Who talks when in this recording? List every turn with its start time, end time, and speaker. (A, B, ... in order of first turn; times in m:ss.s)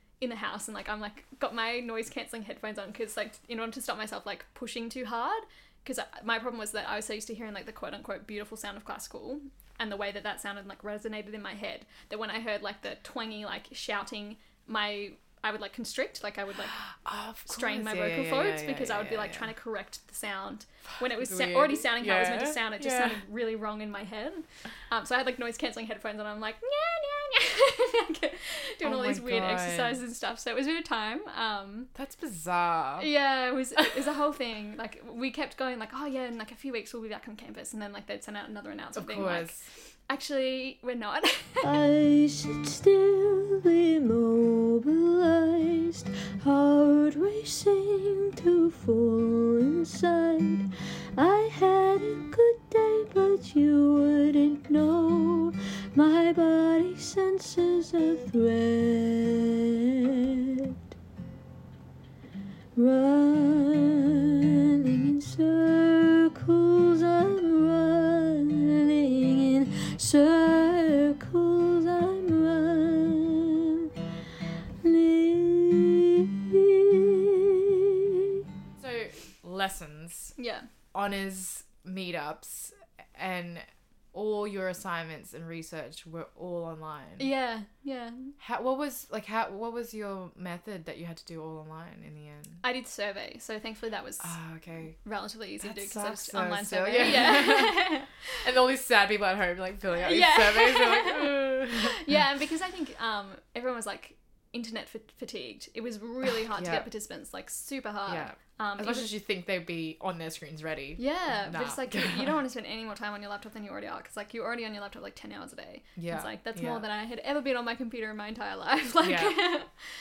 0:00.2-0:16.8 A
0:16.8-0:19.5 B
0:17.4-0:31.9 A
0:21.0-0:23.2 B
0:28.8-0:30.0 B
0:31.9-0:33.1 B
0:33.0-0:41.7 A
0:39.0-0:39.7 B
0:41.6-1:00.8 C
1:02.8-1:13.9 C
1:14.8-1:18.4 C
1:18.8-1:20.3 B
1:20.4-1:20.7 A
1:20.9-1:27.3 B
1:27.2-1:28.3 A
1:28.4-1:32.6 B
1:32.6-1:34.4 A
1:34.2-1:35.0 B
1:35.0-1:38.4 A
1:35.6-1:42.1 B
1:39.9-1:49.1 A
1:46.3-1:46.9 B
1:48.1-1:52.4 B
1:51.0-1:59.7 A
1:56.0-1:56.8 B
1:59.0-1:59.4 B